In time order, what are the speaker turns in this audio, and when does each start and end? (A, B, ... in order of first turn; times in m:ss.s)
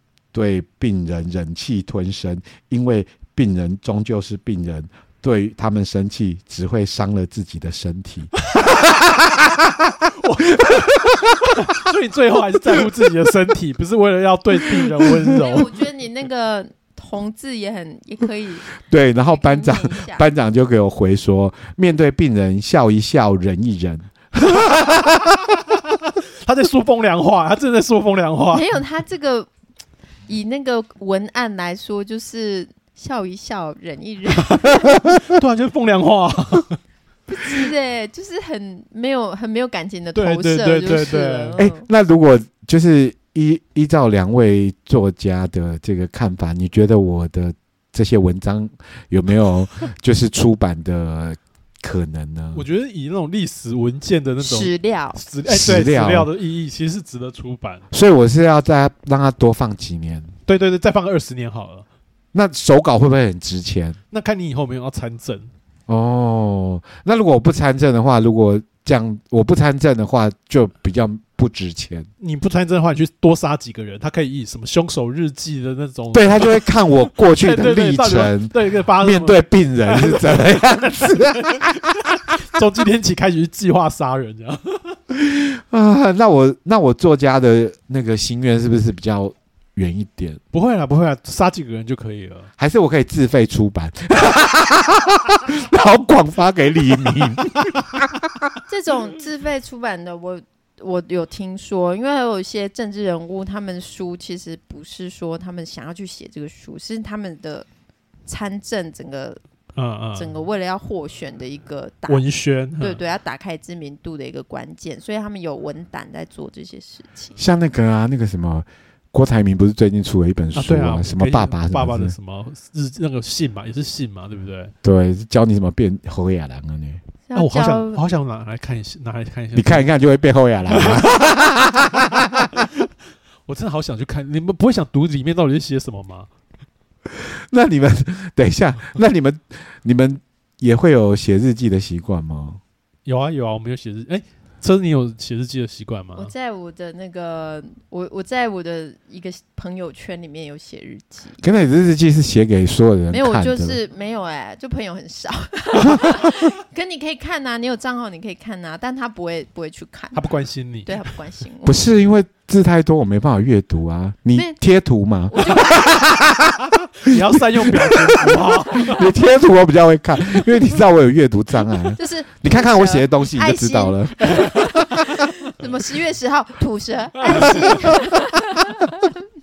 0:00.3-0:09.7 A
0:10.2-0:15.8 B
0:10.5-0:11.5 A
0:14.6-0:15.1 A
0:15.3-0:18.7 C
0:18.9-0:25.5 A
0:19.3-0:20.2 C
0:26.4-0:28.8 B
0:28.5-0:29.5 C
0:30.3-0:35.0 C
0:35.0-0:36.8 B
0:37.3-0:41.9 C
0:40.1-0:41.6 B
0:41.6-0:52.6 A
0:52.5-0:57.8 B
0:54.4-0:55.2 C
0:55.4-0:56.3 A
0:57.9-1:00.3 A
1:00.4-1:01.8 B
1:02.3-1:04.0 A
1:04.1-1:05.5 B
1:05.9-1:12.1 A
1:12.2-1:25.0 B
1:16.1-1:21.8 A
1:25.1-1:30.4 A
1:30.5-1:32.5 B
1:32.6-1:38.5 A
1:38.7-1:47.7 C
1:48.3-1:49.4 C
1:49.8-1:50.4 B
1:50.2-1:52.2 C
1:52.1-1:53.0 B
1:52.8-1:57.3 C
1:57.4-2:02.1 A
2:00.5-2:04.7 B
2:04.8-2:07.0 A
2:07.3-2:08.0 C
2:07.3-2:09.9 B
2:09.5-2:12.5 A
2:10.7-2:11.2 B
2:11.9-2:12.7 B
2:13.5-2:16.3 B
2:17.5-2:22.6 A
2:23.0-2:26.3 B
2:26.2-2:31.4 C
2:31.4-2:33.8 A
2:33.1-2:40.2 C
2:40.1-2:41.1 B
2:40.8-2:41.8 C
2:41.6-2:54.8 A
2:45.3-2:46.1 C
2:47.0-2:49.1 B
2:52.0-2:59.1 C
2:54.2-2:54.7 B
2:57.2-2:57.9 B